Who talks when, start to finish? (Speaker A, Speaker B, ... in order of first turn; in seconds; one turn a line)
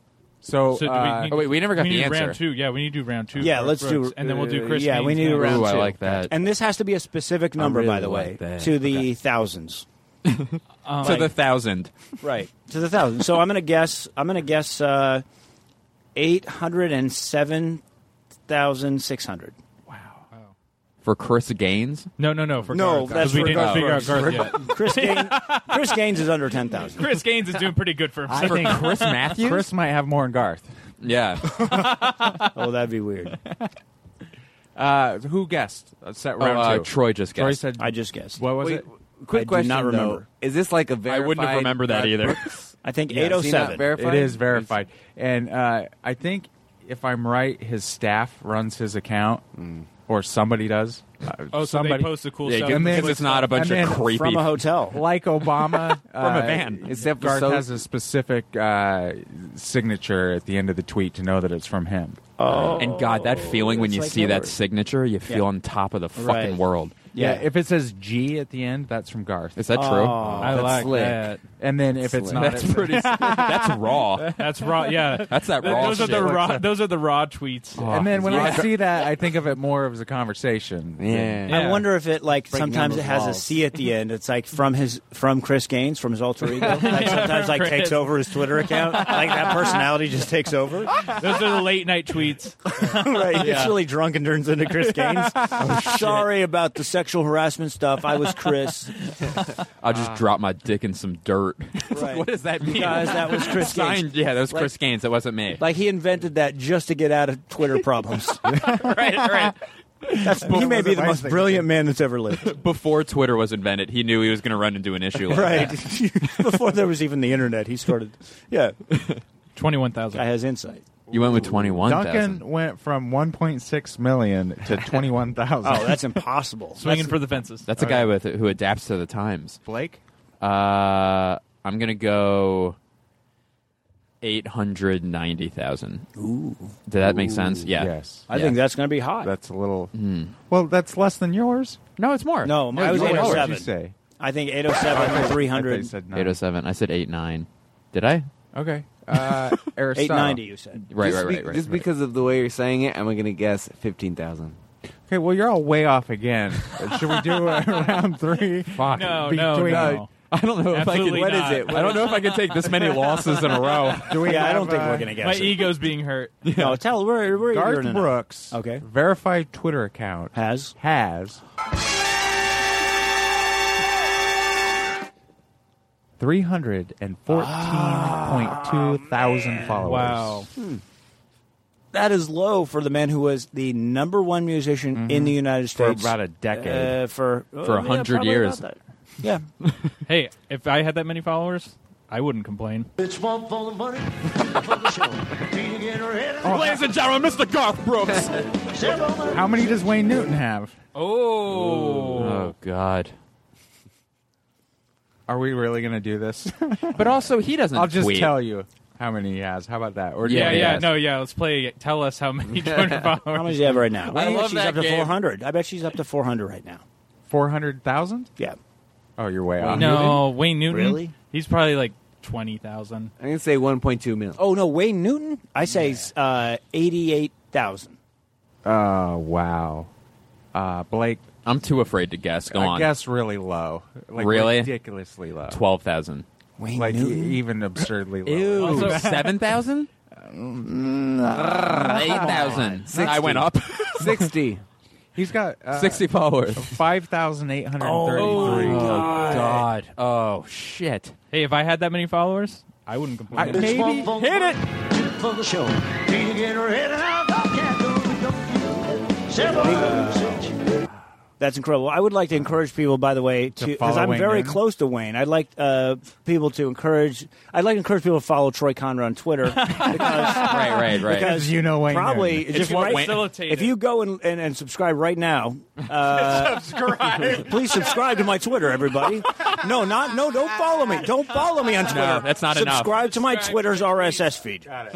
Speaker A: 0.4-1.5
Speaker B: 0.7-5.6
Speaker C: 1.3-2.4
Speaker D: 3.4-9.8
Speaker C: 5.3-6.3
Speaker A: 5.6-6.2
Speaker E: 7.6-8.6
Speaker C: 8.1-9.0
Speaker C: 10.3-11.9
Speaker B: 10.9-11.2
Speaker D: 11.0-11.3
Speaker D: 12.2-15.2
Speaker D: 16.1-17.8
Speaker D: 18.5-19.6
Speaker C: 21.0-22.1
Speaker B: 22.2-25.8
Speaker D: 22.7-27.1
Speaker A: 22.8-24.5
Speaker C: 23.2-24.2
Speaker B: 26.9-29.1
Speaker A: 28.3-30.7
Speaker C: 28.4-29.7
Speaker C: 31.0-31.4
Speaker B: 31.7-32.3
Speaker D: 32.5-33.4
Speaker A: 34.8-38.9
Speaker C: 36.4-37.6
Speaker D: 37.8-38.5
Speaker E: 38.5-44.8
Speaker D: 39.3-40.3
Speaker C: 41.1-42.6
Speaker D: 42.8-43.9
Speaker A: 43.9-49.4
Speaker E: 49.5-49.9
Speaker A: 50.1-54.1
Speaker B: 51.5-53.6
Speaker C: 52.5-54.6
Speaker D: 53.9-55.0
Speaker A: 54.9-62.2
Speaker C: 55.4-56.9
Speaker E: 56.8-57.8
Speaker D: 62.4-64.5
Speaker C: 62.5-67.0
Speaker D: 66.2-66.6
Speaker D: 67.1-67.5
Speaker A: 67.2-71.0
Speaker C: 69.6-70.4
Speaker D: 69.8-70.9
Speaker B: 70.4-71.4
Speaker E: 70.5-71.3
Speaker A: 71.6-74.8
Speaker E: 72.0-72.7
Speaker C: 72.3-74.4
Speaker B: 74.4-78.6
Speaker C: 75.3-76.6
Speaker A: 75.6-76.7
Speaker C: 77.8-78.7
Speaker A: 77.8-81.5
Speaker E: 78.2-78.5
Speaker E: 81.0-81.8
Speaker B: 81.5-81.9
Speaker D: 81.5-90.9
Speaker E: 82.5-83.6
Speaker B: 86.6-89.3
Speaker B: 91.1-92.6
Speaker D: 92.8-98.9
Speaker A: 95.1-96.1
Speaker C: 95.6-96.2
Speaker C: 99.8-105.6
Speaker D: 101.9-104.7
Speaker D: 105.6-108.4
Speaker A: 108.5-109.5
Speaker C: 108.7-109.5
Speaker D: 110.2-112.6
Speaker A: 110.2-111.7
Speaker C: 112.5-115.8
Speaker D: 115.2-118.8
Speaker B: 119.5-120.3
Speaker D: 120.1-120.8
Speaker C: 121.1-122.4
Speaker A: 121.1-126.1
Speaker D: 125.6-127.2
Speaker B: 126.8-127.7
Speaker C: 127.7-129.6
Speaker A: 127.8-128.1
Speaker A: 129.7-130.0
Speaker C: 130.4-132.8
Speaker C: 134.2-136.1
Speaker D: 136.2-137.5
Speaker C: 136.9-138.6
Speaker A: 137.7-138.3
Speaker D: 138.3-139.3
Speaker A: 139.2-139.9
Speaker C: 139.9-140.3
Speaker A: 140.5-141.8
Speaker C: 142.0-143.6
Speaker D: 142.4-145.9
Speaker A: 142.8-143.9
Speaker A: 144.9-146.4
Speaker C: 146.1-148.3
Speaker A: 148.6-150.4
Speaker D: 149.9-150.8
Speaker C: 150.9-151.8
Speaker E: 150.9-154.6
Speaker A: 155.1-160.1
Speaker C: 158.7-164.3
Speaker B: 158.9-160.1
Speaker B: 160.7-162.2
Speaker E: 161.1-162.1
Speaker A: 163.9-165.2
Speaker D: 164.2-165.7
Speaker B: 165.2-166.5
Speaker C: 166.4-166.8
Speaker D: 166.6-168.8
Speaker A: 167.3-171.4
Speaker D: 170.3-170.8
Speaker A: 176.2-180.5
Speaker D: 177.3-179.8
Speaker B: 179.8-180.5
Speaker D: 181.9-189.4
Speaker A: 184.9-187.0
Speaker C: 187.6-188.7
Speaker B: 190.1-192.9
Speaker F: 193.0-196.6
Speaker A: 196.4-196.8
Speaker C: 196.4-198.4
Speaker F: 198.7-200.0
Speaker A: 199.3-200.7
Speaker B: 200.9-202.5
Speaker C: 202.0-203.1
Speaker A: 205.3-211.0
Speaker C: 206.9-208.4
Speaker C: 210.2-210.9
Speaker B: 210.3-213.8
Speaker E: 212.7-212.9
Speaker D: 213.3-216.8
Speaker C: 214.1-215.1
Speaker A: 217.3-218.3
Speaker A: 219.2-220.2
Speaker E: 219.6-219.8
Speaker D: 219.7-221.1
Speaker B: 219.8-223.1
Speaker E: 223.2-224.4
Speaker D: 224.4-228.0
Speaker A: 228.7-229.9
Speaker A: 230.5-231.3
Speaker C: 231.4-232.9
Speaker A: 232.5-235.6
Speaker C: 234.2-234.7
Speaker C: 235.5-236.2
Speaker D: 236.6-237.4
Speaker A: 236.8-239.3
Speaker C: 238.2-239.9
Speaker B: 238.7-239.1
Speaker A: 240.1-243.5
Speaker C: 241.6-244.3
Speaker E: 242.9-243.5
Speaker E: 244.0-244.6
Speaker A: 245.2-249.4
Speaker C: 245.7-246.8
Speaker D: 247.8-249.6
Speaker C: 248.2-251.2
Speaker B: 251.3-253.8
Speaker A: 253.3-254.6
Speaker F: 253.5-260.6
Speaker C: 254.2-254.6
Speaker D: 259.6-260.2
Speaker A: 259.7-260.4
Speaker D: 261.4-284.7
Speaker A: 263.6-264.6
Speaker B: 269.6-270.4
Speaker C: 270.2-271.3
Speaker A: 271.1-272.7
Speaker B: 272.5-273.8
Speaker C: 272.6-273.2
Speaker A: 276.2-277.5
Speaker C: 281.8-283.2